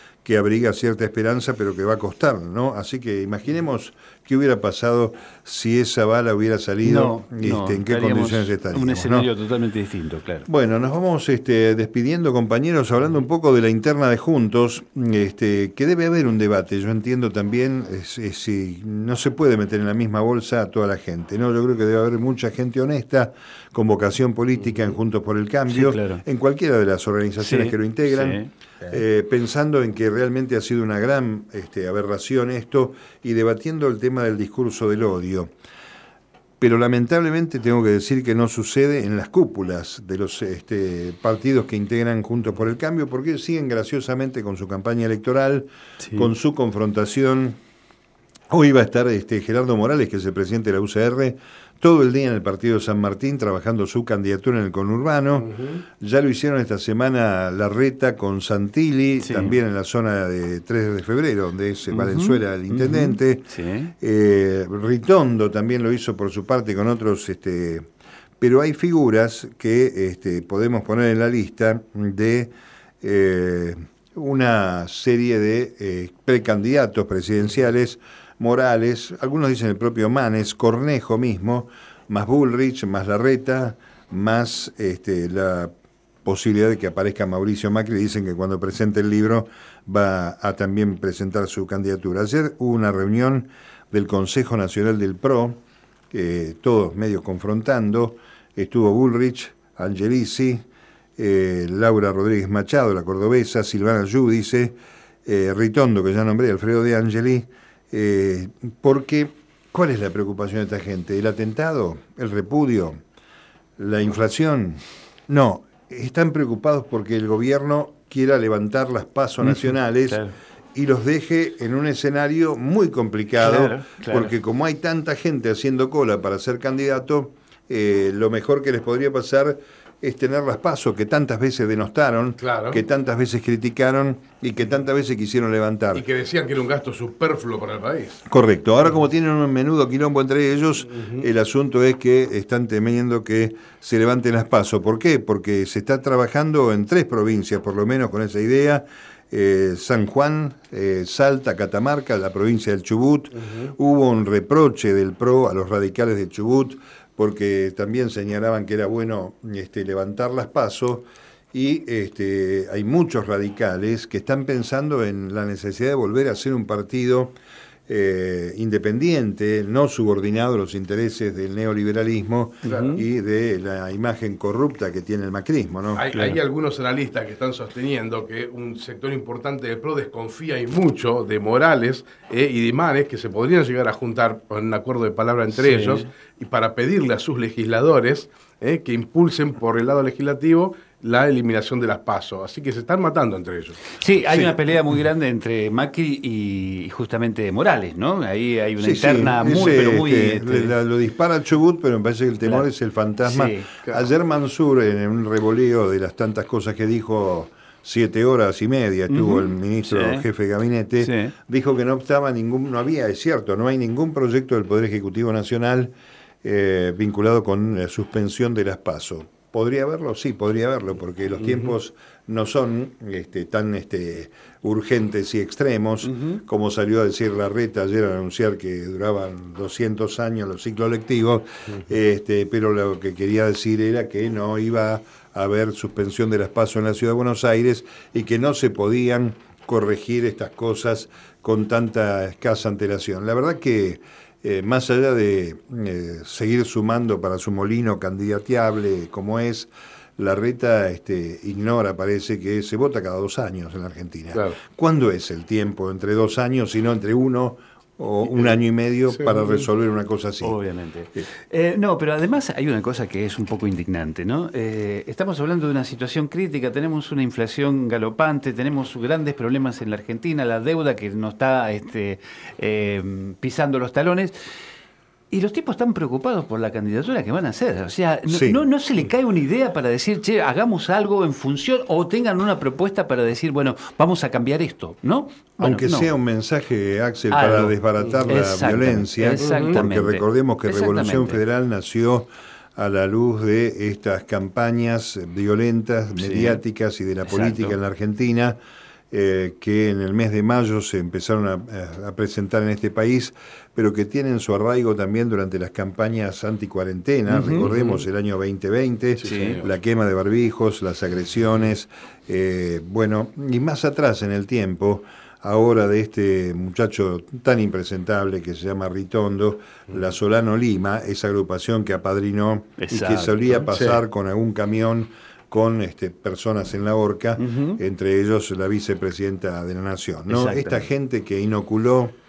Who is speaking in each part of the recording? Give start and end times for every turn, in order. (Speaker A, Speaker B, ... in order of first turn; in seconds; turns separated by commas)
Speaker A: 0.2-9.3, Speaker B: 6.8-10.5, Speaker A: 10.5-35.5, Speaker B: 25.7-26.2, Speaker B: 27.4-28.5, Speaker A: 36.6-47.6, Speaker B: 46.0-46.3, Speaker A: 48.5-67.9, Speaker B: 59.2-59.6, Speaker B: 61.9-63.9, Speaker A: 68.4-85.7, Speaker A: 86.2-95.6, Speaker A: 96.1-100.7, Speaker A: 101.2-104.8, Speaker A: 105.3-113.0, Speaker A: 113.8-120.2, Speaker B: 119.4-120.3, Speaker A: 120.8-136.0, Speaker B: 123.4-124.3, Speaker C: 132.4-132.8, Speaker C: 135.9-138.2, Speaker A: 138.3-167.3, Speaker C: 141.0-141.2, Speaker A: 167.9-176.0, Speaker C: 172.6-172.9, Speaker B: 172.6-173.0, Speaker C: 175.9-193.8, Speaker B: 176.1-176.4, Speaker B: 185.5-186.1, Speaker B: 194.0-200.8, Speaker A: 194.3-194.6, Speaker A: 198.8-215.9, Speaker B: 203.2-203.7, Speaker B: 209.1-210.3, Speaker B: 211.0-211.3, Speaker A: 216.4-260.6, Speaker B: 226.0-226.4, Speaker C: 259.2-259.6, Speaker B: 260.4-274.4, Speaker B: 275.3-286.1, Speaker A: 278.3-278.6, Speaker A: 285.6-298.6, Speaker B: 287.3-287.8, Speaker B: 288.3-291.4, Speaker C: 289.4-289.8, Speaker B: 296.2-296.6, Speaker B: 297.2-297.8, Speaker A: 299.1-332.1, Speaker B: 307.3-307.7, Speaker C: 307.6-308.0, Speaker B: 309.2-309.6, Speaker C: 309.2-309.7, Speaker B: 322.8-323.7, Speaker C: 323.7-324.0, Speaker B: 327.4-327.8, Speaker B: 330.3-330.9